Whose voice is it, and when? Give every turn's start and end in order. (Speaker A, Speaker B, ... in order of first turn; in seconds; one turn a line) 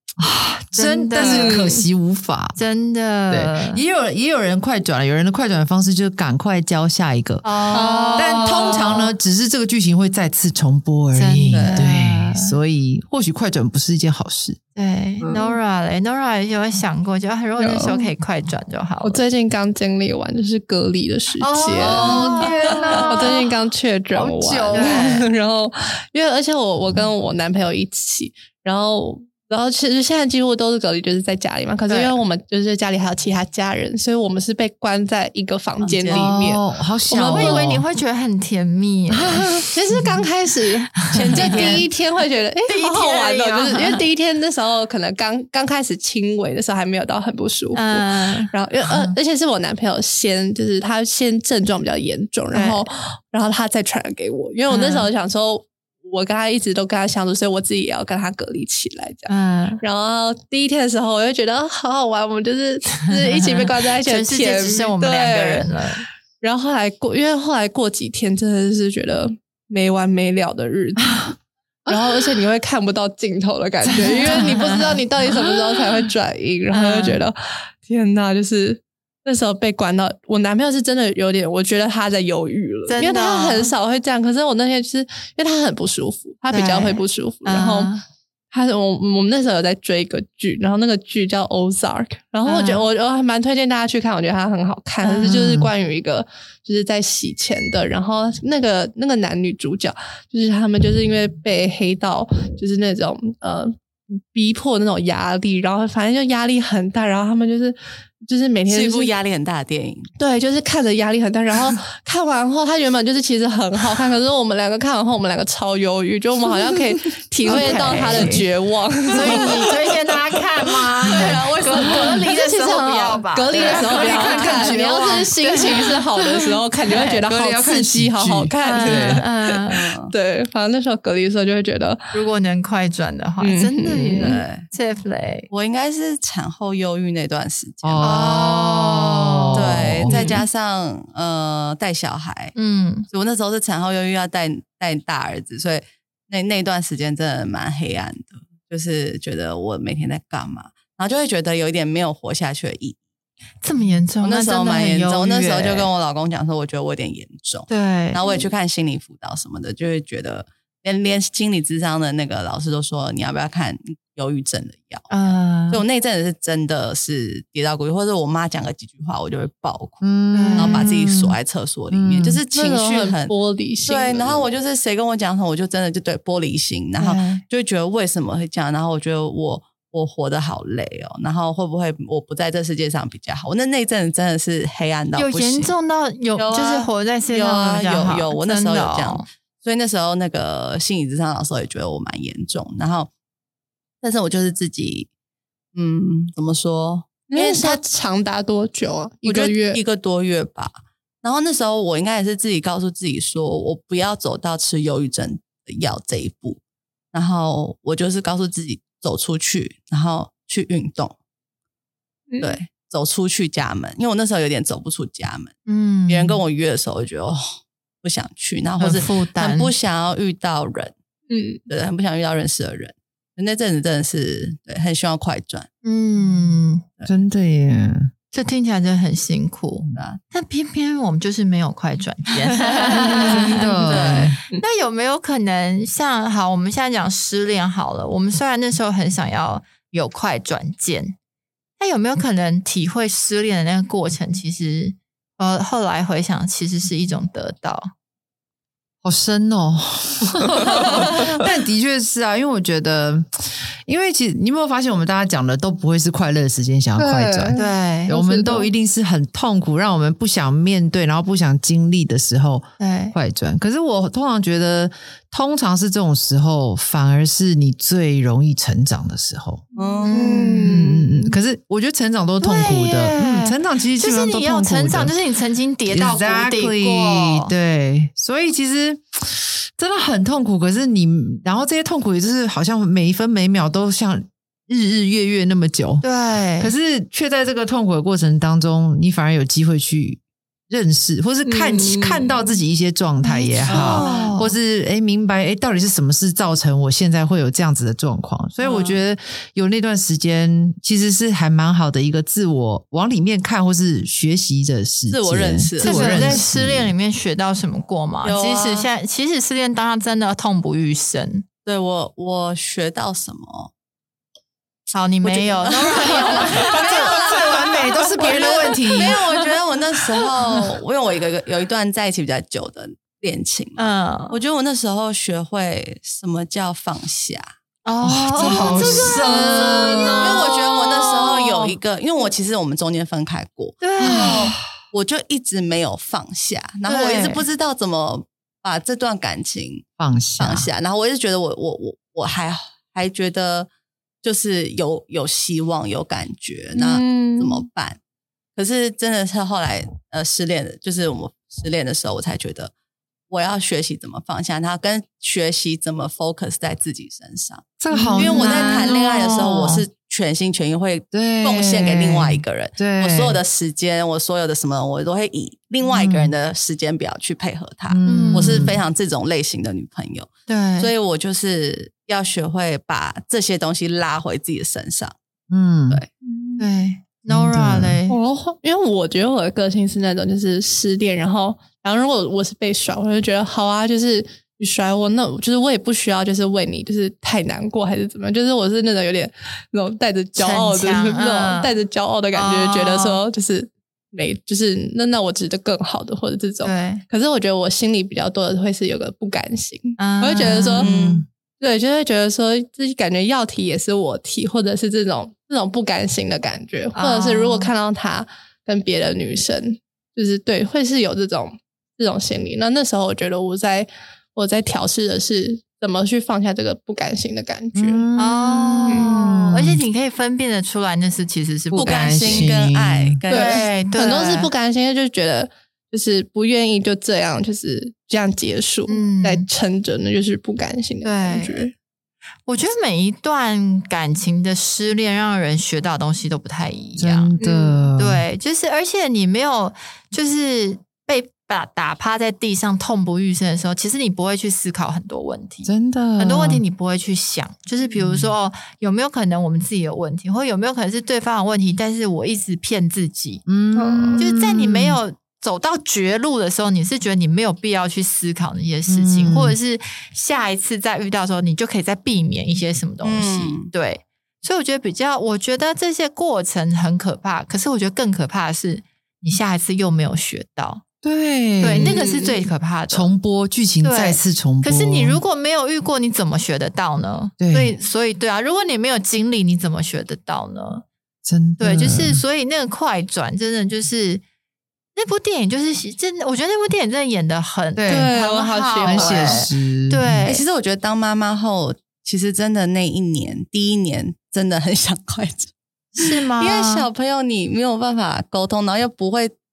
Speaker A: 0.2-2.6
Speaker B: 0.8-1.7
Speaker C: 1.2-1.8
Speaker B: 2.6-3.8
Speaker A: 3.3-14.6
Speaker B: 7.4-9.1
Speaker C: 7.7-8.5
Speaker B: 11.1-12.6
Speaker D: 11.5-11.8
Speaker B: 14.7-19.2
Speaker C: 15.2-15.6
Speaker C: 17.6-18.1
Speaker C: 19.0-37.7
Speaker A: 21.4-23.5
Speaker D: 21.9-22.1
Speaker B: 21.9-23.4
Speaker A: 24.1-25.1
Speaker B: 24.7-25.3
Speaker B: 31.9-32.1
Speaker D: 35.8-36.4
Speaker A: 36.1-37.8
Speaker B: 37.3-40.1
Speaker A: 39.2-39.7
Speaker C: 39.7-65.7
Speaker D: 41.1-41.9
Speaker B: 41.1-41.4
Speaker A: 41.4-41.9
Speaker B: 42.7-44.0
Speaker B: 47.7-48.5
Speaker A: 48.9-49.2
Speaker B: 52.5-52.8
Speaker B: 54.7-55.1
Speaker B: 59.3-59.8
Speaker B: 63.1-66.0
Speaker C: 66.4-71.3
Speaker A: 71.9-72.4
Speaker C: 71.9-87.9
Speaker A: 73.8-76.1
Speaker B: 74.2-75.0
Speaker B: 76.7-77.2
Speaker B: 82.9-83.7
Speaker B: 86.5-88.0
Speaker C: 88.5-109.1
Speaker B: 92.5-92.8
Speaker B: 95.0-95.4
Speaker A: 95.2-95.7
Speaker D: 108.7-110.1
Speaker C: 110.2-119.8
Speaker B: 117.4-118.5
Speaker D: 118.0-118.3
Speaker B: 119.1-127.2
Speaker D: 121.1-122.3
Speaker C: 121.8-132.1
Speaker A: 123.5-125.3
Speaker A: 127.3-129.2
Speaker B: 128.6-129.8
Speaker D: 129.7-130.1
Speaker B: 132.1-135.5
Speaker C: 133.4-134.4
Speaker D: 134.2-134.7
Speaker D: 135.5-138.2
Speaker A: 137.8-140.3
Speaker B: 138.0-140.3
Speaker D: 139.5-142.6
Speaker C: 140.1-140.4
Speaker B: 142.6-143.1
Speaker D: 143.1-153.0
Speaker B: 153.6-155.9
Speaker D: 154.2-170.0
Speaker B: 157.7-158.2
Speaker B: 165.1-165.8
Speaker A: 170.0-171.4
Speaker B: 170.3-170.9
Speaker D: 170.6-185.7
Speaker A: 171.9-172.4
Speaker C: 172.5-174.5
Speaker B: 177.0-177.4
Speaker B: 185.2-189.2
Speaker D: 186.4-193.1
Speaker D: 194.0-195.1
Speaker D: 195.8-197.8
Speaker C: 197.3-199.8
Speaker D: 199.2-206.6
Speaker D: 207.1-211.1
Speaker C: 212.3-212.6
Speaker D: 212.4-215.5
Speaker B: 215.7-216.4
Speaker D: 216.1-217.4
Speaker D: 218.0-220.9
Speaker B: 218.8-219.7
Speaker C: 221.3-221.6
Speaker D: 221.7-225.7
Speaker B: 225.8-226.8
Speaker A: 226.2-226.5
Speaker A: 227.1-228.1
Speaker B: 228.3-241.2
Speaker D: 229.9-230.2
Speaker A: 232.9-234.4
Speaker D: 233.0-234.4
Speaker B: 241.8-247.9
Speaker A: 249.0-269.6
Speaker C: 257.0-258.7
Speaker B: 257.6-258.1
Speaker B: 262.8-263.1
Speaker D: 269.8-270.6
Speaker C: 269.8-271.2
Speaker B: 270.0-270.9
Speaker A: 270.6-275.1
Speaker B: 272.4-277.5
Speaker A: 275.9-286.1
Speaker B: 286.0-286.7
Speaker A: 286.6-306.9
Speaker C: 291.4-292.4
Speaker B: 293.2-294.6
Speaker D: 293.7-294.3
Speaker D: 305.1-306.4
Speaker B: 305.8-311.4
Speaker D: 308.2-308.9
Speaker D: 311.7-313.7
Speaker B: 314.9-318.9
Speaker D: 315.2-327.5
Speaker A: 316.7-319.2
Speaker B: 323.8-324.4
Speaker B: 327.9-330.5
Speaker A: 328.0-330.6
Speaker D: 328.4-339.9
Speaker B: 333.8-334.5
Speaker A: 334.0-334.6
Speaker B: 336.9-337.4
Speaker A: 340.0-340.7
Speaker D: 340.4-343.7
Speaker D: 344.2-348.0
Speaker C: 346.8-347.6
Speaker D: 348.6-352.7
Speaker D: 353.3-375.1
Speaker A: 357.8-359.8
Speaker B: 357.9-358.9
Speaker A: 361.1-363.4
Speaker A: 365.9-366.3
Speaker A: 367.9-368.8
Speaker B: 368.1-368.7
Speaker B: 370.5-370.9
Speaker A: 375.5-376.0
Speaker C: 376.2-376.7
Speaker B: 376.6-378.2
Speaker A: 377.3-378.0
Speaker C: 378.1-400.9
Speaker B: 390.4-391.7
Speaker B: 392.4-393.2
Speaker B: 396.6-397.0
Speaker B: 400.0-400.9
Speaker D: 400.8-401.2
Speaker A: 400.8-401.2
Speaker C: 401.6-418.1
Speaker B: 406.9-407.7
Speaker A: 417.8-419.8
Speaker B: 418.1-422.5
Speaker D: 421.8-424.2
Speaker A: 421.8-423.2
Speaker B: 423.3-424.5
Speaker C: 423.3-431.7
Speaker B: 428.9-429.5
Speaker B: 431.0-431.6
Speaker B: 432.5-437.3
Speaker A: 437.0-438.2
Speaker C: 437.4-437.9
Speaker B: 438.0-453.4
Speaker A: 445.6-446.6
Speaker A: 448.0-448.3
Speaker A: 453.5-455.0
Speaker C: 453.8-454.2
Speaker B: 454.2-470.8
Speaker A: 458.9-459.6
Speaker D: 463.0-463.7
Speaker A: 471.0-472.0
Speaker B: 471.6-473.1
Speaker C: 471.8-472.4
Speaker A: 472.9-475.2
Speaker B: 473.8-480.9
Speaker A: 477.4-477.7
Speaker A: 481.2-482.2
Speaker B: 481.6-484.2
Speaker B: 485.0-490.4
Speaker A: 487.8-488.1
Speaker C: 487.9-489.5
Speaker A: 488.9-490.3
Speaker D: 490.2-499.3
Speaker B: 495.9-496.9